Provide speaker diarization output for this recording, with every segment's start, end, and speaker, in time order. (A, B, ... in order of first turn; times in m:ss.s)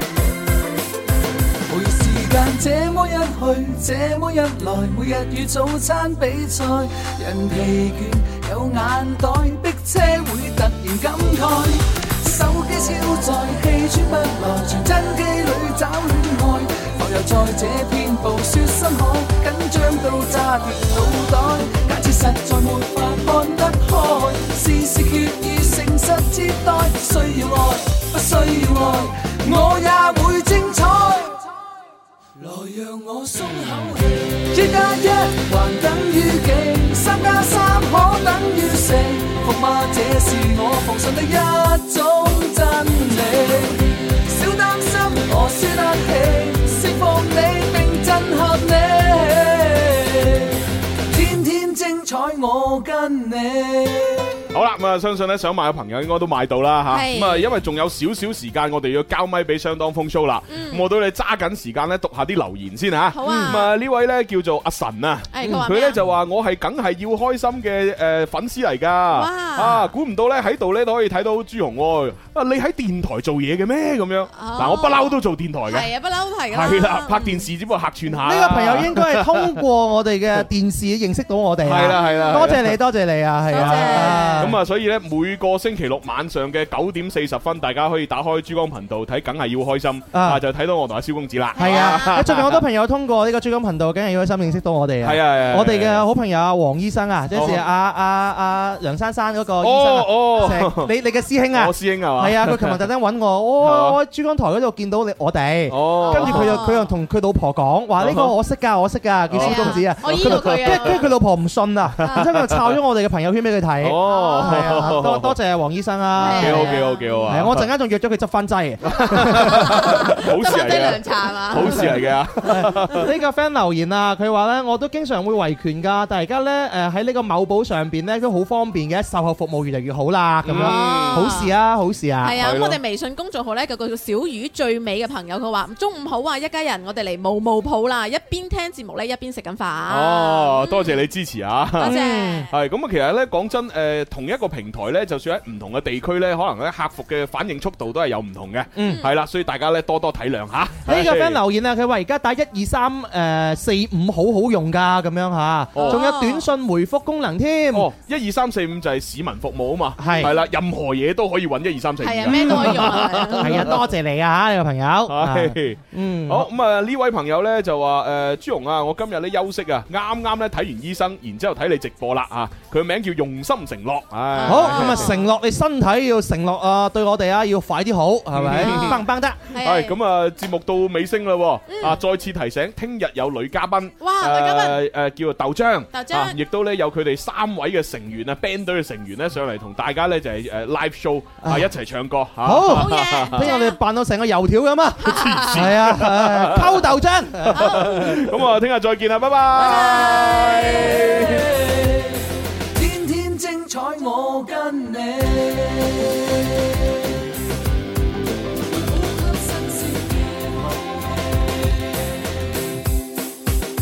0:01.7-0:31.4 A
0:32.4-0:54.4 A
0:54.5-1:15.9 B
0:56.9-0:57.5 C
1:00.5-1:00.8 C
1:03.1-1:03.7 C
1:03.2-1:03.6 D
1:05.3-1:06.0 C
1:09.1-1:09.9 C
1:14.3-1:17.5 C
1:16.5-1:19.6 B
1:18.2-1:24.6 D
1:21.6-1:22.8 B
1:21.8-1:22.6 C
1:23.5-1:24.5 C
1:23.5-1:32.6 B
1:30.1-1:30.4 D
1:31.6-1:32.3 C
1:31.6-1:56.8 D
1:35.0-1:36.1 B
1:37.3-1:37.6 B
1:39.6-1:40.9 B
1:41.5-1:42.8 B
1:43.6-1:44.0 B
1:45.7-1:46.6 B
1:46.0-1:46.9 C
1:48.0-1:48.3 B
1:49.3-1:51.0 B
1:49.4-1:51.1 C
1:52.0-1:52.7 B
1:52.0-1:52.3 C
1:53.8-1:55.4 B
1:54.0-1:54.9 C
1:56.2-1:57.3 C
1:56.2-1:57.7 B
1:57.3-2:00.0 D
1:58.8-2:03.1 B
1:59.5-2:02.0 C
2:01.7-2:01.9 D
2:02.4-2:12.4 D
2:10.4-2:11.3 B
2:10.6-2:11.5 C
2:12.2-2:21.0 C
2:12.4-2:12.8 B
2:19.9-2:31.4 B
2:21.8-2:22.5 C
2:21.8-2:22.5 D
2:28.8-2:29.0 D
2:28.8-2:29.1 C
2:30.8-2:37.9 D
2:35.7-2:36.0 B
2:35.8-2:36.5 C
2:37.7-2:43.8 B
2:40.0-2:40.3 D
2:42.0-2:43.7 C
2:42.2-2:46.5 D
2:45.1-2:55.2 B
2:54.3-2:55.3 C
2:54.5-2:59.4 D
2:58.3-3:13.5 B
2:58.5-2:59.9 C
3:01.7-3:02.0 C
3:04.0-3:04.8 C
3:05.9-3:06.4 C
3:12.4-3:18.0 D
3:12.7-3:13.8 C
3:15.0-3:16.8 B
3:15.0-3:15.7 C
3:17.4-3:21.6 B
3:17.5-3:18.2 C
3:19.6-3:21.2 C
3:21.2-3:26.7 A
3:28.7-3:32.0 A